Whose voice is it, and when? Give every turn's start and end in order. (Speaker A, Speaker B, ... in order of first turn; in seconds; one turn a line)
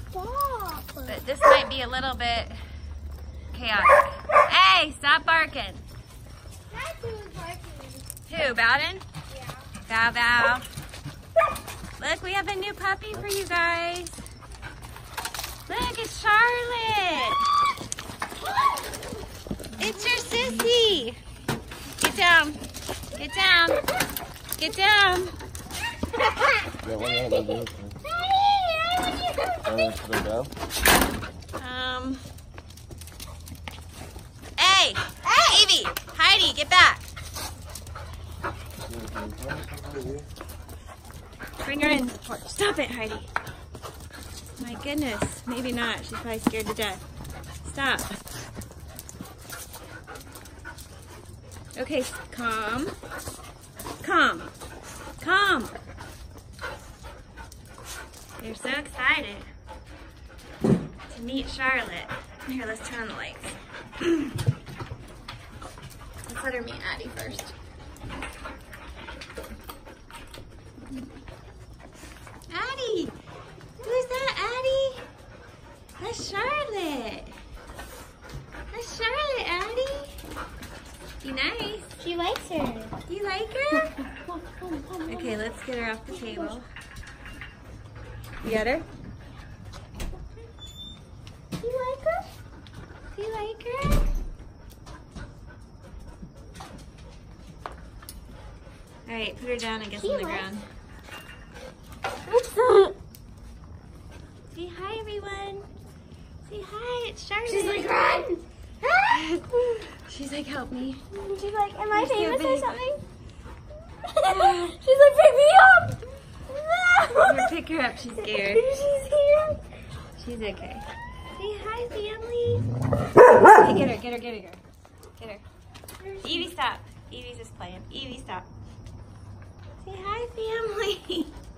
Speaker A: 0.1-1.2
Speaker B: 1.1-2.6
Speaker B: 3.5-5.8
Speaker A: 6.7-8.1
Speaker B: 8.3-9.1
Speaker A: 9.3-9.7
Speaker B: 9.9-10.7
Speaker B: 12.0-14.2
Speaker B: 15.7-17.4
Speaker B: 19.8-21.2
Speaker B: 22.0-22.6
Speaker B: 23.1-23.9
Speaker B: 24.6-25.4
Speaker C: 26.8-28.0
Speaker A: 28.1-29.6
Speaker C: 29.6-30.5
Speaker B: 31.6-32.2
Speaker B: 34.6-37.0
Speaker C: 38.9-40.3
Speaker B: 41.6-43.3
Speaker B: 44.6-47.0
Speaker B: 47.6-48.2
Speaker B: 51.8-53.0
Speaker B: 54.0-54.5
Speaker B: 55.2-55.7
Speaker B: 58.4-59.5
Speaker B: 61.1-64.4
Speaker B: 66.3-67.5
Speaker B: 72.5-73.1
Speaker B: 73.8-75.0
Speaker B: 76.0-77.3
Speaker B: 78.7-80.2
Speaker B: 81.2-82.0
Speaker A: 82.0-83.0
Speaker B: 83.1-84.0
Speaker A: 83.9-85.4
Speaker B: 85.1-86.7
Speaker A: 86.1-86.5
Speaker B: 88.4-88.9
Speaker A: 91.6-92.3
Speaker B: 93.1-94.1
Speaker B: 99.1-100.7
Speaker A: 100.0-100.5
Speaker A: 102.3-103.0
Speaker B: 104.5-105.7
Speaker B: 106.5-108.0
Speaker A: 107.5-109.2
Speaker B: 109.1-111.0
Speaker A: 111.1-113.0
Speaker B: 111.9-112.8
Speaker A: 114.0-117.5
Speaker B: 114.3-114.8
Speaker B: 117.2-118.7
Speaker A: 118.2-119.6
Speaker B: 120.2-122.7
Speaker B: 123.5-124.6
Speaker B: 125.2-125.4
Speaker A: 126.1-126.5
Speaker B: 126.2-128.5
Speaker B: 129.8-131.3